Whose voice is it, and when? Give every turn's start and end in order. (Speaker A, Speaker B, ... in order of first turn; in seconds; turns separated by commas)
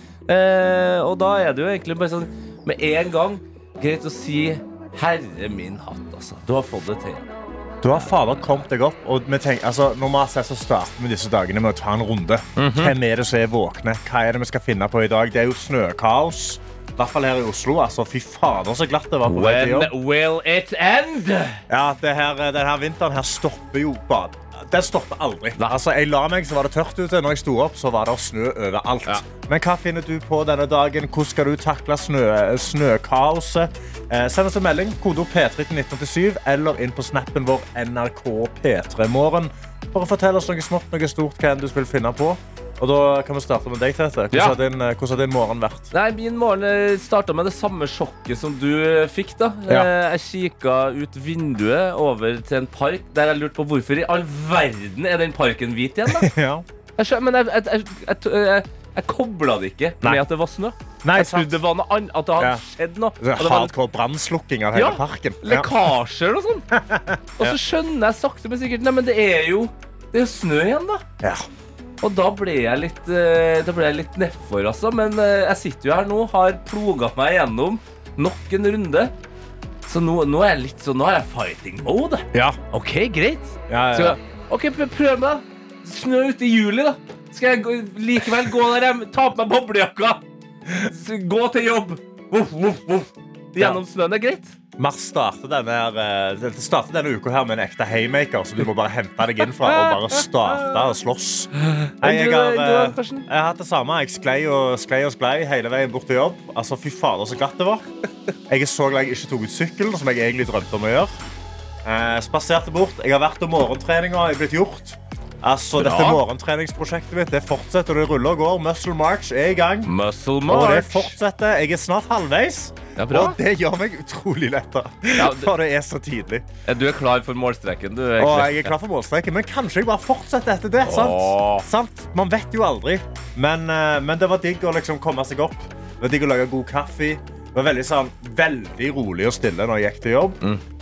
Speaker A: 0.3-7.3, Speaker B: 7.8-19.9, Speaker A: 7.9-8.4, Speaker A: 12.6-12.9, Speaker A: 19.3-21.6, Speaker B: 21.7-45.9, Speaker A: 45.9-56.3, Speaker B: 56.1-56.7, Speaker A: 57.0-63.7, Speaker B: 61.0-61.5, Speaker B: 63.2-65.7, Speaker A: 64.7-66.7, Speaker B: 66.7-67.6, Speaker A: 67.4-71.0, Speaker A: 72.0-79.1, Speaker A: 79.9-90.2, Speaker B: 82.3-82.6, Speaker B: 83.7-84.2, Speaker A: 90.8-94.5, Speaker B: 94.8-107.9, Speaker A: 99.4-100.8, Speaker A: 101.6-103.3, Speaker B: 108.5-111.1, Speaker B: 111.8-119.9, Speaker A: 115.8-116.2, Speaker A: 119.8-121.1, Speaker B: 120.5-126.5, Speaker A: 123.0-123.4, Speaker A: 125.2-125.5, Speaker A: 126.7-128.7, Speaker B: 128.2-140.4, Speaker A: 130.8-131.7